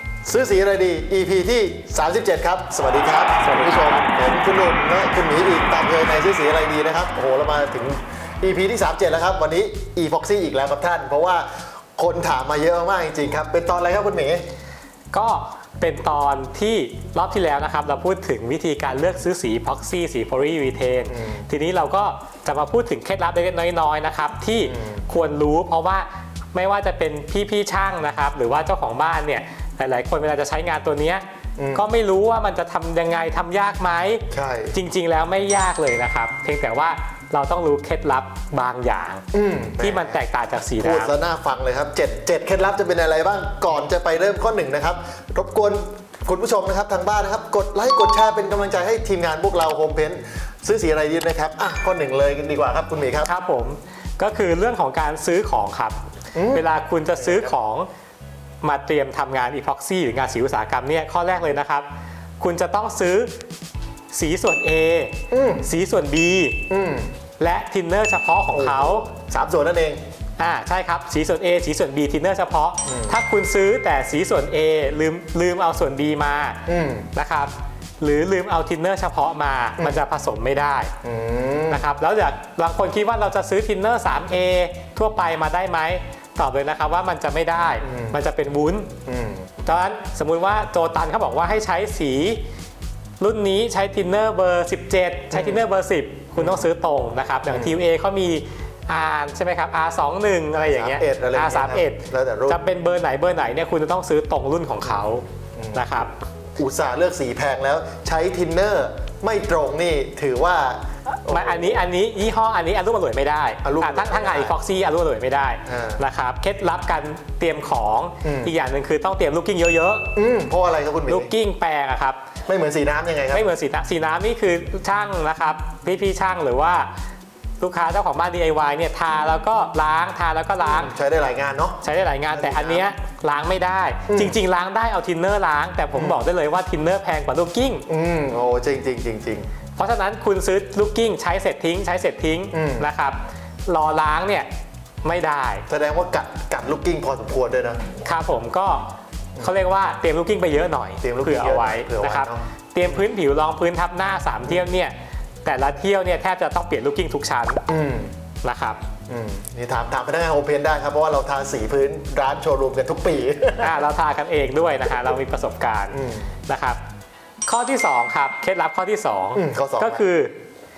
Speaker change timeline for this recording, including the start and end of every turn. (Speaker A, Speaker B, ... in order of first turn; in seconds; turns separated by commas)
Speaker A: 0.2-14.5, Speaker B: 3.4-4.1, Speaker B: 15.1-39.2, Speaker A: 21.1-21.5, Speaker A: 24.6-25.1, Speaker A: 31.6-31.9, Speaker A: 34.3-34.8, Speaker A: 39.3-40.2, Speaker B: 39.8-41.1, Speaker A: 40.8-53.3, Speaker B: 53.2-57.9, Speaker A: 56.4-56.7, Speaker A: 57.2-57.5, Speaker B: 58.6-61.9, Speaker B: 62.4-63.3, Speaker B: 64.1-66.6, Speaker A: 65.3-65.7, Speaker A: 66.7-67.1, Speaker B: 67.4-69.1, Speaker A: 68.5-70.0, Speaker B: 70.4-76.6, Speaker A: 72.9-73.2, Speaker A: 76.7-77.1, Speaker B: 77.2-80.9, Speaker A: 81.0-81.9, Speaker B: 81.7-88.9, Speaker A: 87.8-88.2, Speaker A: 89.1-89.5, Speaker B: 89.6-92.4, Speaker B: 93.2-106.1, Speaker A: 95.3-95.6, Speaker A: 96.4-96.7, Speaker A: 97.5-97.8, Speaker A: 100.6-102.6, Speaker A: 105.6-111.8, Speaker B: 111.3-120.1, Speaker A: 113.6-114.6, Speaker A: 115.7-116.0, Speaker A: 118.2-118.5, Speaker A: 120.2-121.3, Speaker B: 121.1-122.2, Speaker A: 122.5-123.5, Speaker B: 123.3-126.9, Speaker B: 127.6-130.9, Speaker A: 130.6-132.9, Speaker B: 131.8-137.9, Speaker A: 134.1-134.4, Speaker A: 135.9-136.2, Speaker A: 137.9-139.5, Speaker B: 139.8-144.5, Speaker A: 142.5-142.9, Speaker B: 145.0-145.7, Speaker A: 145.7-147.9, Speaker B: 148.1-157.6, Speaker A: 151.0-153.1, Speaker A: 157.7-158.2, Speaker B: 158.4-158.8, Speaker A: 159.1-163.8, Speaker B: 163.6-166.0, Speaker A: 165.9-166.3, Speaker B: 166.5-166.8, Speaker B: 167.5-170.3, Speaker A: 169.3-170.1